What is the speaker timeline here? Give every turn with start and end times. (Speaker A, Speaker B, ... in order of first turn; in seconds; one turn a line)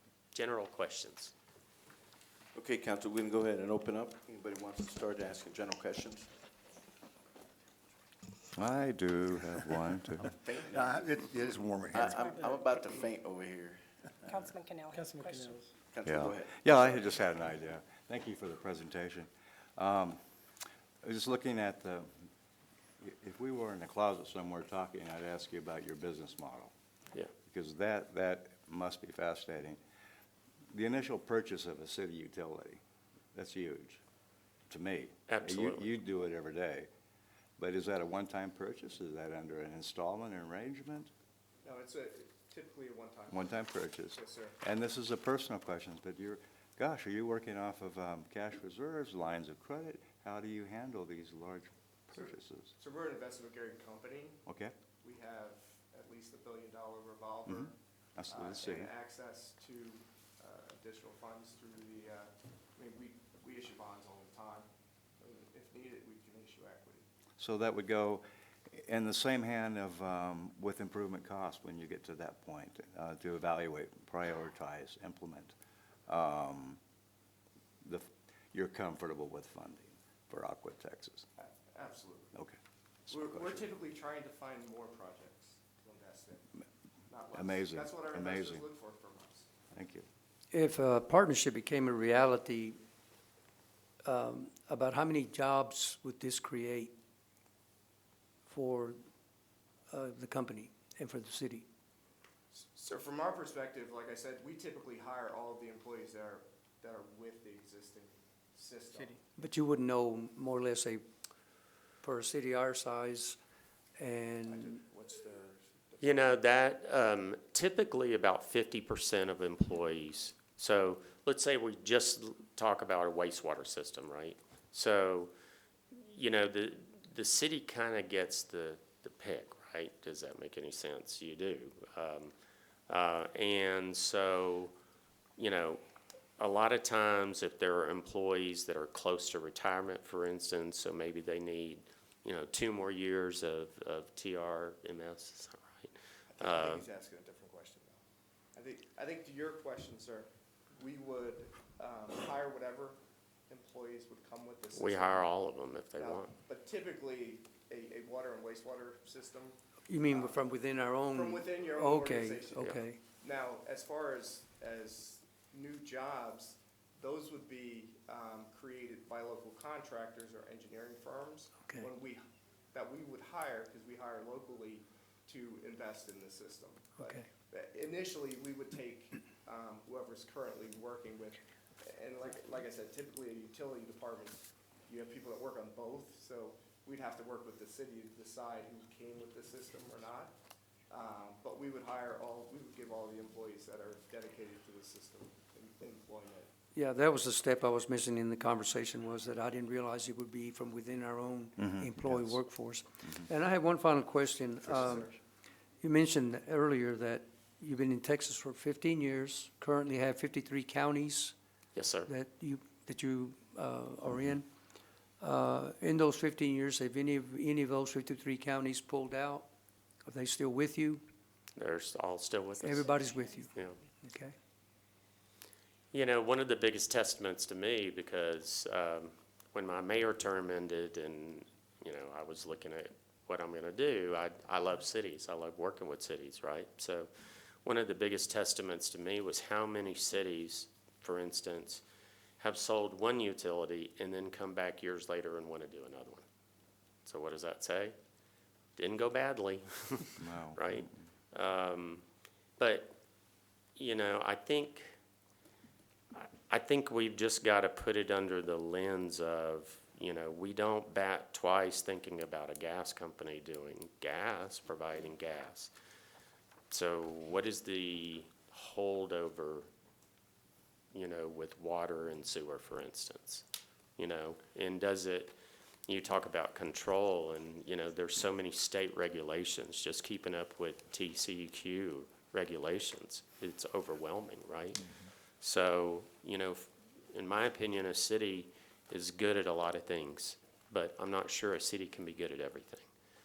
Speaker A: 0.3-1.3
Speaker B: 2.5-6.3
Speaker C: 8.5-10.3
Speaker B: 10.3-11.2
Speaker D: 10.8-12.2
Speaker B: 11.9-14.5
Speaker E: 14.3-15.7
Speaker D: 15.0-15.5
Speaker B: 15.8-17.2
Speaker C: 16.0-20.2
Speaker C: 21.0-22.1
Speaker C: 23.0-26.7
Speaker C: 27.5-29.8
Speaker C: 30.7-32.8
Speaker C: 33.3-34.0
Speaker C: 34.7-36.9
Speaker A: 35.3-35.9
Speaker C: 37.6-41.1
Speaker F: 41.6-43.6
Speaker C: 43.3-52.7
Speaker F: 44.1-44.6
Speaker F: 52.8-54.4
Speaker C: 54.5-54.7
Speaker F: 55.0-57.7
Speaker C: 57.5-58.9
Speaker F: 58.3-64.7
Speaker F: 65.2-67.0
Speaker C: 67.4-75.5
Speaker C: 76.1-76.8
Speaker C: 77.8-81.3
Speaker F: 81.4-82.4
Speaker C: 83.1-83.6
Speaker F: 83.1-86.5
Speaker F: 87.1-89.5
Speaker C: 87.3-88.6
Speaker C: 89.7-90.1
Speaker G: 90.5-92.8
Speaker G: 94.0-96.9
Speaker G: 98.5-99.0
Speaker G: 99.9-101.7
Speaker F: 102.5-109.2
Speaker G: 109.4-111.0
Speaker G: 112.0-113.4
Speaker G: 114.0-114.7
Speaker F: 114.5-116.4
Speaker A: 116.0-125.3
Speaker A: 125.9-132.3
Speaker A: 132.9-134.7
Speaker A: 135.4-135.8
Speaker A: 136.4-146.8
Speaker F: 146.3-148.0
Speaker F: 148.6-153.0
Speaker F: 153.5-155.3
Speaker A: 154.7-156.3
Speaker F: 156.0-172.2
Speaker G: 159.9-163.0
Speaker F: 172.7-190.3
Speaker F: 190.9-196.5
Speaker G: 196.8-205.0
Speaker C: 201.6-202.2
Speaker F: 204.6-205.2
Speaker G: 205.8-211.3
Speaker A: 211.8-212.1
Speaker G: 212.1-214.4
Speaker G: 215.2-219.5
Speaker G: 220.1-221.0
Speaker A: 221.6-223.0
Speaker G: 222.7-223.5
Speaker E: 222.9-223.4
Speaker G: 224.0-224.3
Speaker A: 225.9-237.1
Speaker A: 237.6-241.8
Speaker A: 242.4-246.2
Speaker A: 247.1-247.9
Speaker A: 248.8-252.0
Speaker C: 250.2-250.9
Speaker A: 252.6-252.9
Speaker A: 253.8-254.9
Speaker A: 256.1-265.7
Speaker A: 266.7-269.7
Speaker A: 270.9-273.4
Speaker A: 274.0-275.4
Speaker A: 275.9-292.9